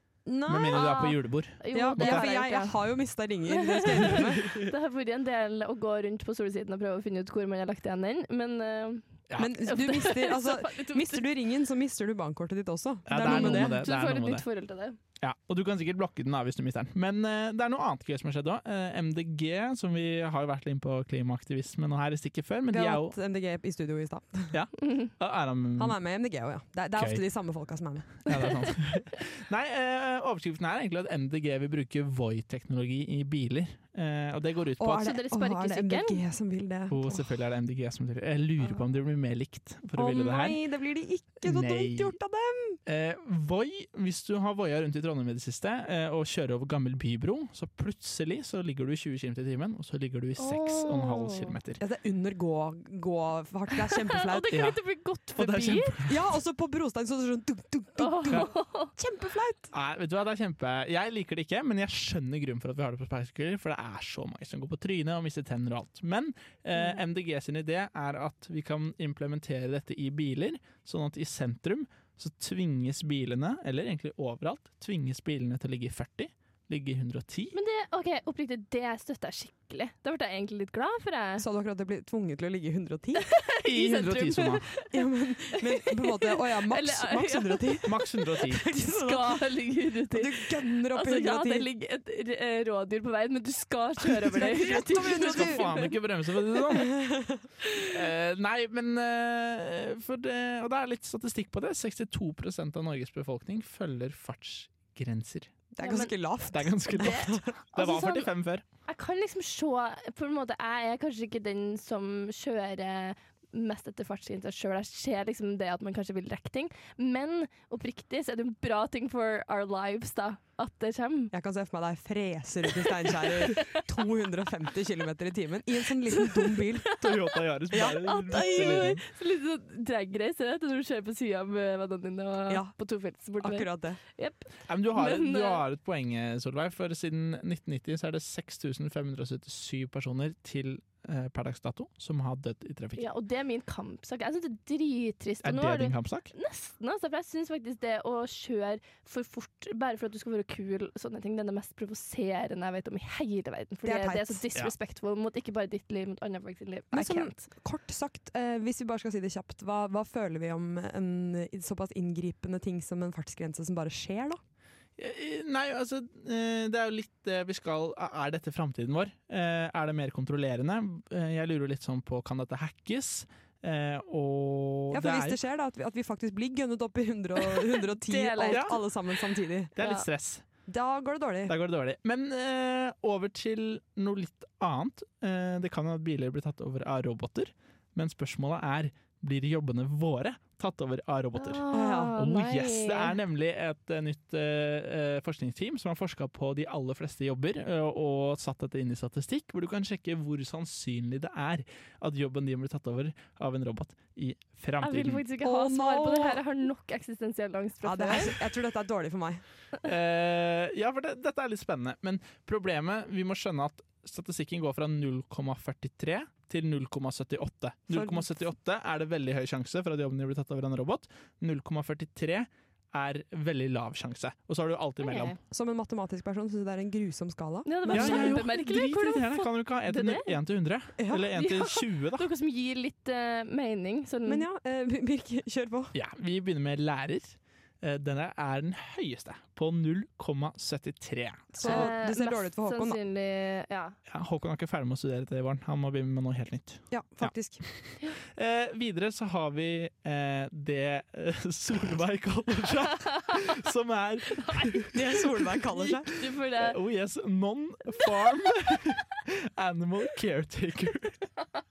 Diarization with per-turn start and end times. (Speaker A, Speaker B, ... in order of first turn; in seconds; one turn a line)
Speaker A: 0.2-1.1
Speaker B: 0.5-2.4
Speaker C: 0.7-2.8
Speaker A: 1.7-4.5
Speaker C: 3.5-11.2
Speaker B: 3.9-4.7
Speaker B: 9.3-9.6
Speaker A: 9.4-13.8
Speaker B: 13.1-14.4
Speaker C: 13.2-15.0
Speaker B: 15.2-23.1
Speaker A: 22.7-24.5
Speaker B: 24.5-26.0
Speaker A: 25.8-28.5
Speaker B: 26.9-27.2
Speaker B: 28.2-35.1
Speaker A: 34.8-37.2
Speaker C: 34.9-36.2
Speaker B: 36.9-40.6
Speaker A: 40.0-42.8
Speaker B: 41.4-42.2
Speaker B: 42.9-51.8
Speaker C: 50.4-51.5
Speaker A: 51.8-54.6
Speaker C: 53.7-56.0
Speaker B: 54.5-54.8
Speaker B: 55.4-56.1
Speaker A: 56.0-59.7
Speaker C: 58.0-58.9
Speaker B: 59.7-77.5
Speaker C: 77.5-81.4
Speaker A: 81.4-83.3
Speaker C: 83.3-85.0
Speaker B: 83.6-84.8
Speaker A: 84.9-89.4
Speaker C: 85.6-96.0
Speaker B: 87.8-88.6
Speaker A: 90.1-91.7
Speaker A: 94.3-95.9
Speaker B: 94.4-97.0
Speaker A: 96.7-97.5
Speaker B: 97.9-105.5
Speaker A: 105.7-107.5
Speaker C: 105.8-106.1
Speaker B: 106.5-108.6
Speaker C: 106.9-108.3
Speaker C: 108.9-121.3
Speaker A: 121.3-127.0
Speaker C: 122.8-123.8
Speaker C: 126.1-135.6
Speaker B: 126.9-129.0
Speaker A: 127.7-128.8
Speaker A: 132.5-132.7
Speaker A: 133.4-134.0
Speaker B: 134.7-143.1
Speaker C: 142.9-157.3
Speaker B: 145.4-146.3
Speaker A: 153.8-154.4
Speaker A: 156.9-164.4
Speaker B: 165.0-175.4
Speaker A: 174.9-179.7
Speaker C: 177.6-178.8
Speaker B: 178.4-178.8
Speaker B: 179.8-180.5
Speaker C: 179.8-180.1
Speaker A: 180.7-181.6
Speaker B: 181.5-205.3
Speaker C: 191.3-193.2
Speaker A: 191.7-192.1
Speaker C: 204.8-208.4
Speaker A: 205.4-206.4
Speaker A: 207.8-209.4
Speaker B: 209.8-225.4
Speaker A: 217.9-218.3
Speaker C: 225.0-225.4
Speaker A: 225.5-228.5
Speaker C: 227.6-230.4
Speaker B: 227.9-232.3
Speaker A: 231.0-231.3
Speaker C: 231.3-234.4
Speaker A: 234.3-235.9
Speaker B: 235.9-241.9
Speaker A: 241.5-243.0
Speaker C: 241.6-243.9
Speaker B: 244.1-247.8
Speaker A: 246.9-247.6
Speaker B: 248.3-254.9
Speaker C: 254.3-254.9
Speaker A: 254.9-256.1
Speaker C: 255.6-256.8
Speaker B: 256.6-261.3
Speaker C: 257.9-258.3